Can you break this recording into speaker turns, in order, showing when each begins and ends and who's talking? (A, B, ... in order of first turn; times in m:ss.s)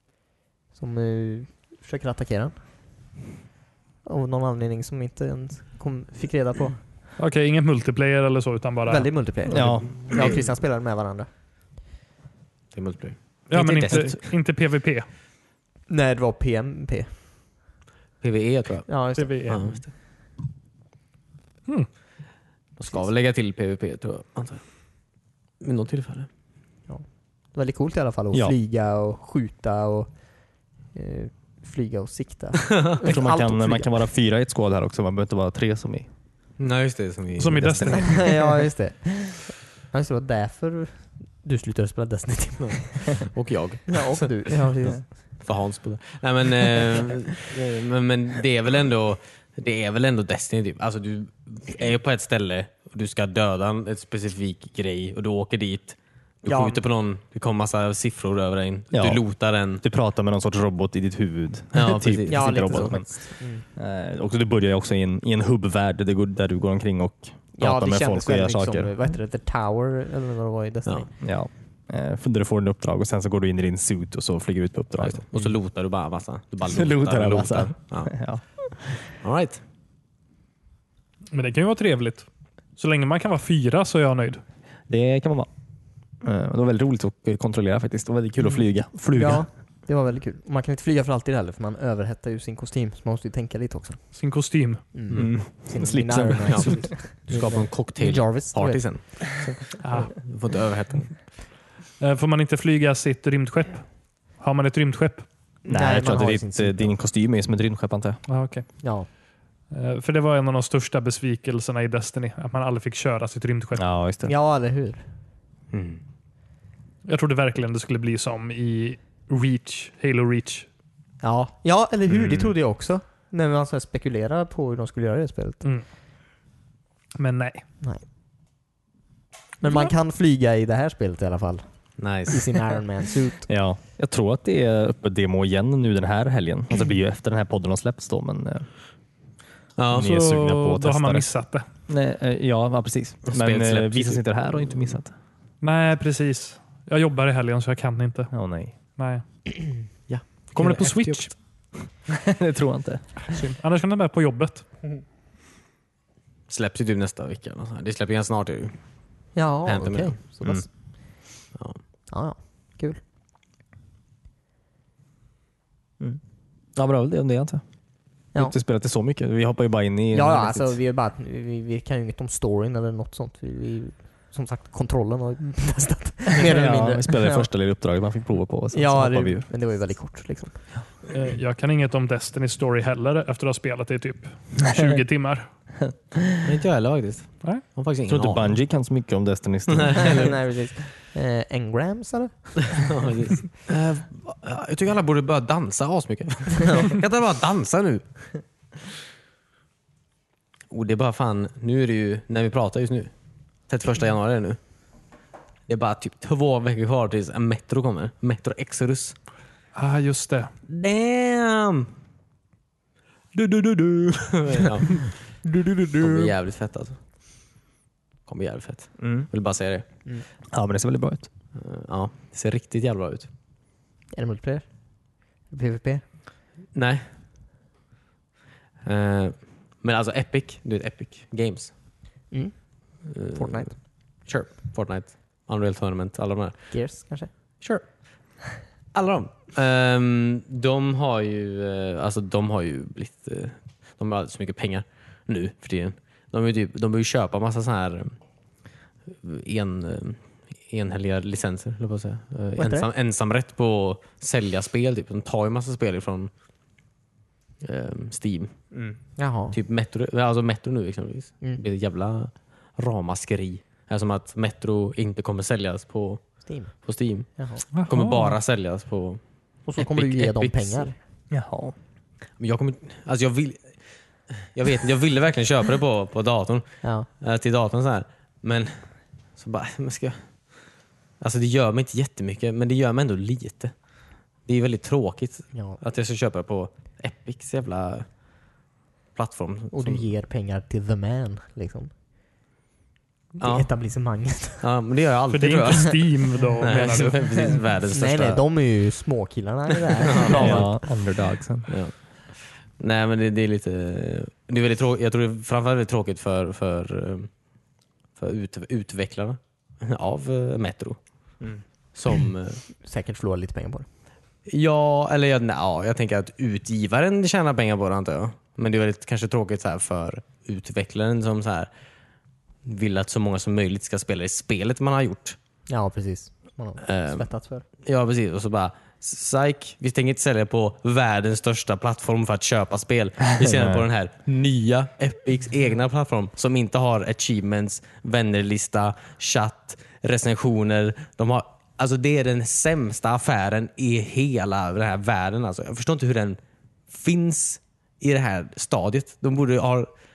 0:00.7-0:02.6 A
0:04.0-0:06.8 A
0:07.2-0:09.1 B
0:08.9-0:11.3 A
0:09.5-0:10.0 C
0:10.1-0:10.5 D
0:12.7-0:14.3 D
0:13.5-0:15.1 B
0:13.6-0:14.2 C
0:15.9-0:17.1 A
0:18.2-0:19.9 D
0:18.9-0:19.4 A
0:19.2-0:19.9 B
0:22.8-0:26.3 D
0:26.9-0:33.9 A
0:33.0-0:36.1 C
0:36.6-0:38.2 D
0:37.4-0:38.5 B
0:38.0-0:43.3 A
0:42.6-0:44.5 D
0:43.9-0:45.1 A
0:45.4-0:59.8 D
0:56.5-0:56.8 A
0:58.9-1:08.9 C
1:01.7-1:03.0 D
1:02.3-1:03.6 A
1:07.6-1:11.1 A
1:11.2-1:15.5 C
1:15.0-1:18.4 D
1:16.7-1:19.0 C
1:19.2-1:19.6 D
1:21.3-1:24.4 B
1:24.9-1:25.5 C
1:26.2-1:29.4 C
1:29.1-1:34.0 A
1:34.1-1:34.8 B
1:34.9-1:39.5 A
1:35.1-1:35.3 D
1:35.1-1:36.9 C
1:36.5-1:41.2 D
1:39.8-1:40.1 B
1:42.0-1:45.2 B
1:45.6-1:46.9 A
1:45.7-1:48.2 C
1:48.3-1:48.8 B
1:48.8-1:49.1 A
1:49.7-1:53.8 B
1:53.8-1:54.3 C
1:54.2-1:55.0 A
1:55.7-1:56.0 D
1:57.0-2:00.7 B
2:01.2-2:05.6 A
2:02.1-2:02.5 D
2:07.2-2:07.6 B
2:09.6-2:13.5 A
2:12.0-2:12.5 D
2:13.5-2:18.7 C
2:19.8-2:20.1 D
2:19.9-2:21.3 C
2:20.0-2:21.7 B
2:21.9-2:25.1 C
2:23.3-2:24.2 D
2:25.6-2:28.3 B
2:28.3-2:28.7 C
2:29.0-2:29.2 B
2:30.1-2:31.4 D
2:30.6-2:31.4 B
2:32.1-2:33.3 C
2:33.3-2:34.7 B
2:36.5-2:38.8 D
2:39.4-2:40.7 A
2:39.6-2:40.2 D
2:41.6-2:41.8 D
2:42.1-2:43.0 A
2:46.8-2:47.6 C
2:48.3-2:50.8 C
2:50.1-2:57.5 A
2:56.4-2:59.5 C
2:58.7-3:00.6 A
3:01.1-3:05.5 B
3:06.4-3:08.6 D
3:08.1-3:10.3 C
3:09.7-3:10.3 D
3:10.1-3:12.9 A
3:12.7-3:18.3 D
3:20.7-3:23.1 D
3:23.7-3:24.6 D
3:25.7-3:29.2 D
3:29.8-3:30.5 B
3:30.7-3:31.9 D
3:33.3-3:35.5 D
3:35.4-3:36.3 A
3:36.0-3:37.0 D
3:38.3-3:39.8 D
3:39.0-3:39.3 C
3:40.5-3:41.3 C
3:41.6-3:43.3 D
3:44.1-3:46.0 A
3:46.7-3:47.0 D
3:48.8-3:51.7 D
3:52.3-3:53.8 A
3:53.1-3:57.1 D
3:56.7-3:57.3 A
3:57.6-3:57.9 D
3:58.9-4:08.2 D
4:09.2-4:16.3 D
4:12.6-4:12.9 A
4:17.6-4:18.5 D
4:19.2-4:19.6 A
4:19.5-4:29.2 D
4:26.5-4:26.7 A
4:27.4-4:27.6 A
4:27.7-4:28.4 B
4:29.7-4:31.0 A
4:29.8-4:30.9 D
4:31.3-4:31.8 C
4:32.4-4:33.7 D
4:34.3-4:38.8 D
4:39.4-4:40.3 D
4:41.2-4:43.7 D
4:44.4-4:48.1 D
4:45.5-4:45.8 A
4:49.2-4:50.0 D
4:49.7-4:51.9 A
4:53.4-4:53.7 D
4:53.4-4:54.6 A
4:54.6-4:56.0 D
4:55.3-4:57.2 B
4:56.6-4:58.4 D
4:57.9-5:00.8 A
5:00.1-5:00.8 D
5:00.3-5:01.8 C
5:01.7-5:07.5 D
5:08.2-5:11.0 D
5:11.9-5:12.6 D
5:12.8-5:13.9 A
5:14.5-5:21.7 D
5:22.6-5:25.4 D
5:25.7-5:27.6 A
5:26.8-5:27.3 D
5:27.8-5:49.9 D
5:33.4-5:33.8 C